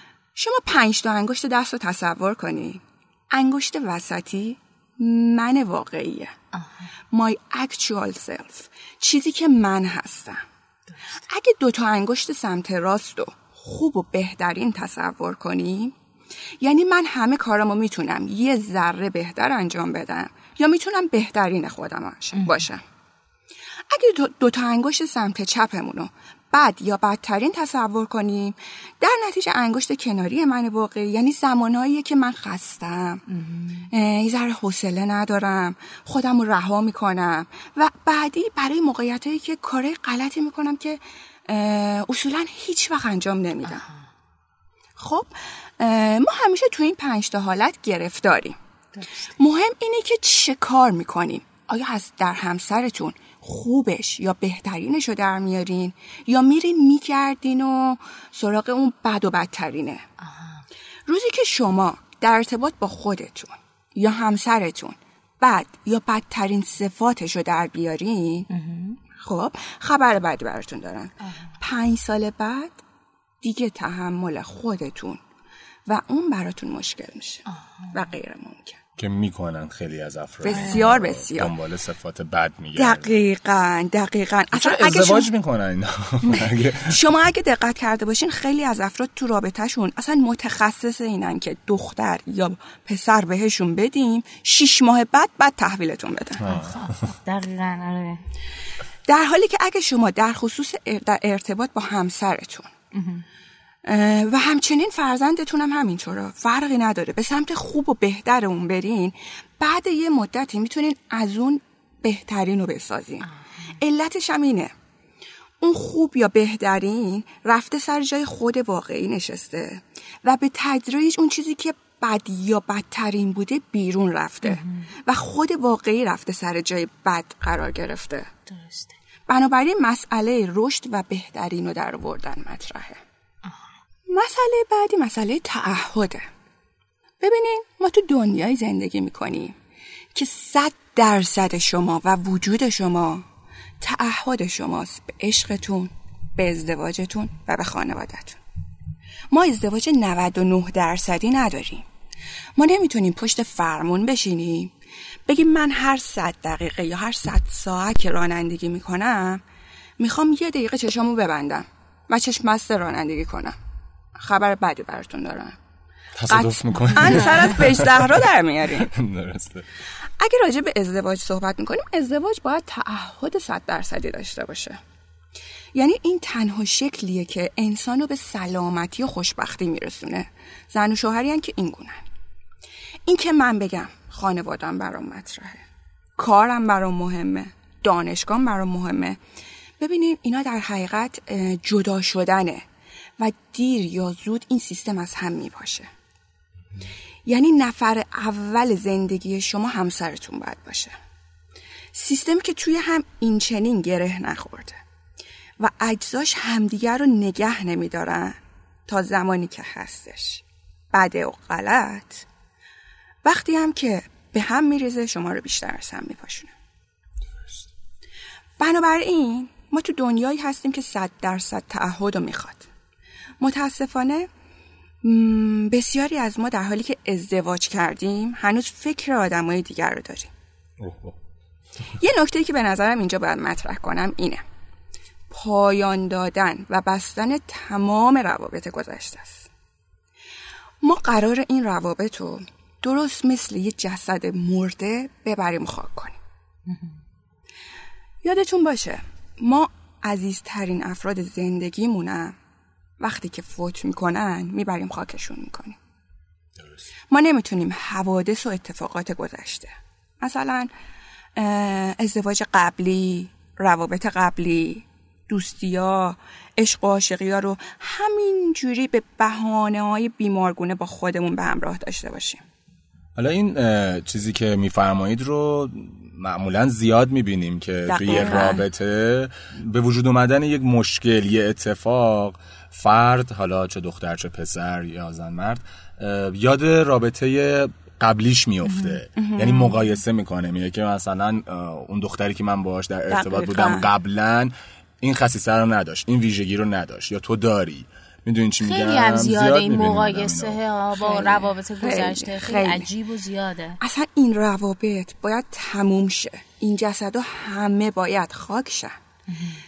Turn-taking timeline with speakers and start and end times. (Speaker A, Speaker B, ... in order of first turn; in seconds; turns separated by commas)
Speaker A: 0.3-6.3, Speaker A: 7.1-10.4, Speaker A: 11.3-15.9, Speaker A: 16.6-22.8, Speaker B: 22.4-22.6, Speaker A: 23.9-33.2, Speaker B: 33.3-33.9, Speaker A: 33.9-43.8, Speaker A: 45.0-48.6, Speaker A: 49.4-60.0, Speaker A: 61.1-68.5, Speaker B: 68.5-69.0, Speaker A: 69.2-72.8, Speaker A: 73.4-75.2, Speaker A: 75.9-78.8, Speaker C: 79.0-83.1, Speaker A: 80.4-81.5, Speaker A: 82.7-85.3, Speaker C: 84.5-87.0, Speaker A: 86.3-96.5, Speaker C: 96.4-97.1, Speaker B: 96.4-98.2, Speaker A: 99.1-102.7, Speaker B: 102.9-103.2, Speaker A: 103.8-114.7, Speaker A: 115.6-128.3, Speaker B: 124.4-124.8, Speaker B: 128.5-128.9, Speaker A: 129.3-133.0, Speaker A: 134.1-136.2, Speaker A: 137.2-139.6, Speaker A: 140.1-143.2, Speaker A: 143.8-148.4, Speaker A: 149.3-151.8, Speaker A: 152.6-154.7, Speaker A: 155.3-159.4, Speaker A: 160.0-163.6, Speaker A: 164.2-165.6, Speaker C: 166.2-169.7, Speaker A: 166.3-168.9, Speaker A: 170.2-174.8, Speaker A: 175.7-182.0, Speaker A: 183.1-185.6, Speaker A: 186.2-189.2, Speaker A: 189.8-192.6, Speaker A: 193.2-195.9, Speaker A: 197.2-200.9, Speaker A: 201.9-204.8, Speaker A: 205.6-212.2, Speaker A: 213.2-216.5, Speaker A: 218.6-222.7, Speaker A: 223.4-224.3, Speaker A: 225.0-230.3, Speaker C: 230.8-231.2, Speaker A: 232.0-234.4, Speaker A: 235.3-239.5, Speaker A: 240.8-246.2, Speaker A: 248.2-252.3, Speaker A: 253.0-255.8, Speaker A: 257.1-260.7, Speaker A: 261.4-272.4, Speaker C: 273.2-300.6, Speaker A: 277.9-278.7, Speaker A: 289.1-289.9, Speaker A: 293.1-293.9, Speaker B: 298.6-303.8, Speaker A: 301.0-302.9, Speaker A: 303.8-308.9, Speaker B: 309.3-309.6